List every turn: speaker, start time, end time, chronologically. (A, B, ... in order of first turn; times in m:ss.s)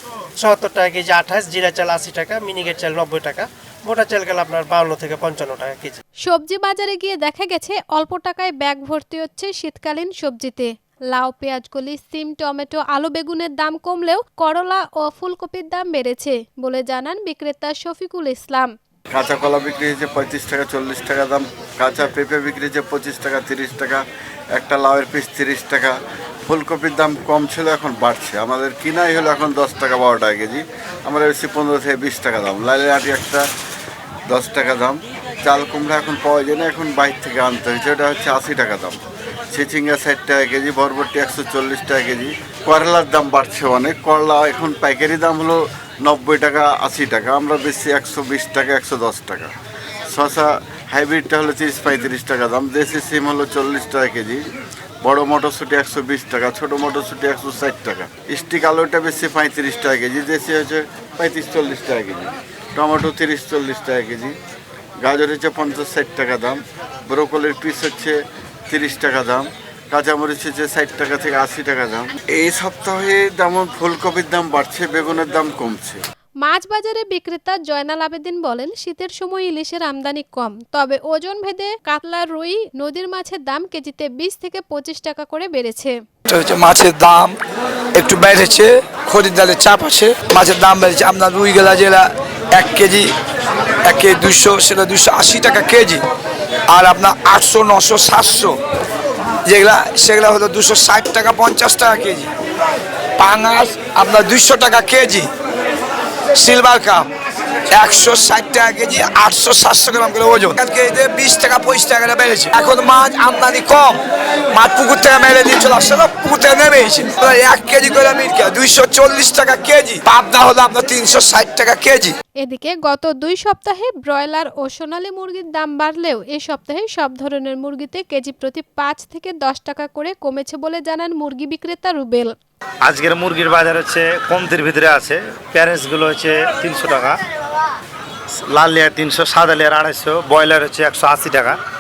0:00.4-0:06.0 A
0:06.2-0:18.7 B
0:19.1-0:24.0 C
0:24.5-0:33.5 C
0:34.3-0:39.0 C
0:39.5-0:49.5 C
0:50.1-0:54.4 C
0:55.0-1:04.3 C
1:05.0-1:08.2 C
1:08.7-1:16.0 C
1:16.4-1:26.0 B
1:26.3-1:27.4 D
1:27.9-1:33.1 D
1:33.8-1:36.0 D
1:36.7-1:38.6 D
1:39.4-1:42.3 D
1:43.2-1:45.3 D
1:46.3-1:47.1 D
1:47.7-2:02.2 D
2:02.4-2:12.3 B
2:12.8-2:17.2 E
2:18.5-2:21.6 E